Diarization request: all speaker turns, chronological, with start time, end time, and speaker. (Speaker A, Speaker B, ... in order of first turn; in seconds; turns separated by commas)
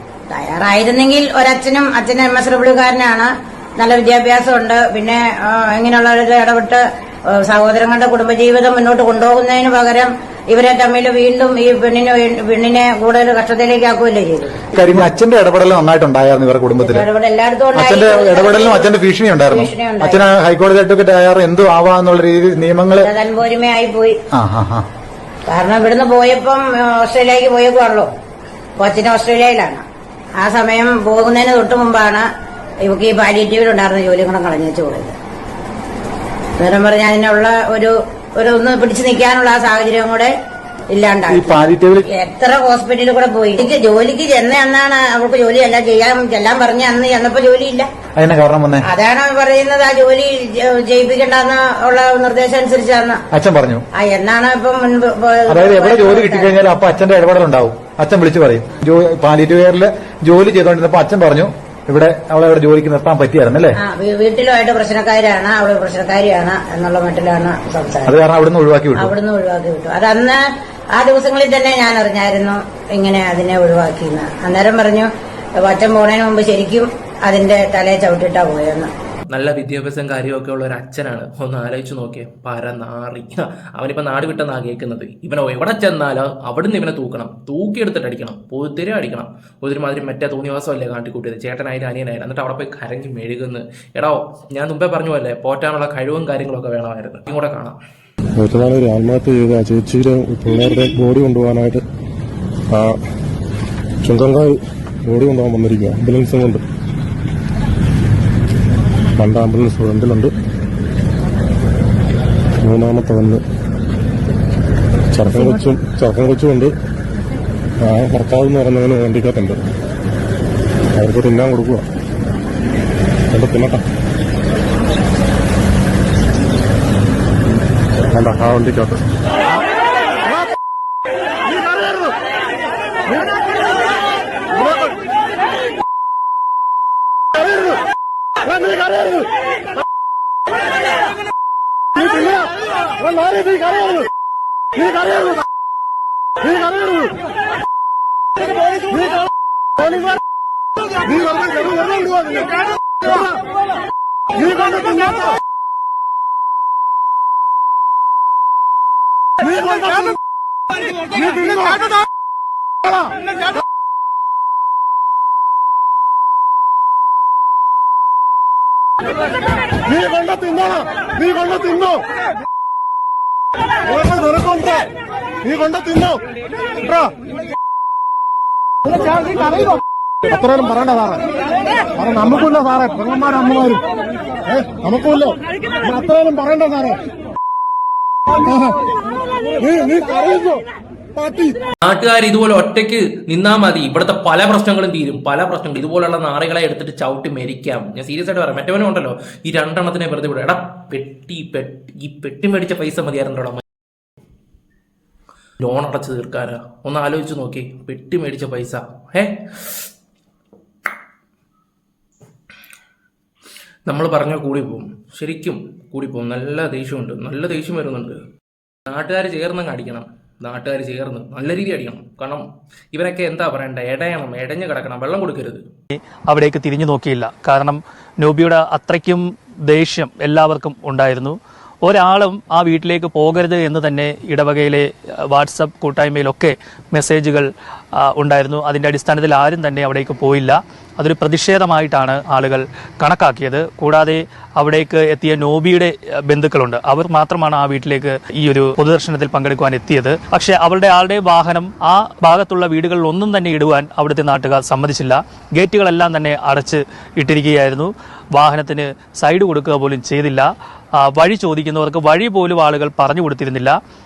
Speaker A: 0.3-15.0, Speaker B: 14.7-17.1, Speaker A: 16.8-18.9, Speaker B: 17.7-23.1, Speaker A: 19.5-20.2, Speaker A: 23.0-24.2, Speaker B: 24.3-24.9, Speaker A: 25.5-28.1, Speaker A: 28.8-29.8, Speaker A: 30.4-32.3, Speaker A: 32.8-35.1, Speaker A: 36.6-40.3, Speaker A: 40.9-41.6, Speaker B: 41.3-42.1, Speaker A: 42.1-47.9, Speaker B: 48.2-48.9, Speaker A: 48.9-53.2, Speaker B: 53.3-53.9, Speaker A: 54.0-56.6, Speaker B: 55.5-63.8, Speaker A: 63.8-68.2, Speaker B: 68.0-69.2, Speaker A: 69.0-70.4, Speaker A: 71.0-75.1, Speaker A: 75.6-78.9, Speaker C: 79.3-97.8, Speaker D: 98.4-101.8, Speaker D: 102.7-103.0, Speaker D: 104.0-106.6, Speaker D: 109.2-110.3, Speaker D: 112.6-113.4, Speaker D: 115.1-116.7, Speaker D: 117.8-119.6, Speaker D: 121.0-121.9, Speaker D: 123.3-123.8, Speaker D: 128.2-129.0, Speaker D: 180.4-180.9, Speaker D: 183.0-183.7, Speaker D: 184.9-185.3, Speaker C: 191.8-203.6, Speaker C: 205.6-209.3, Speaker C: 213.9-218.2, Speaker C: 218.9-225.6, Speaker E: 225.9-263.8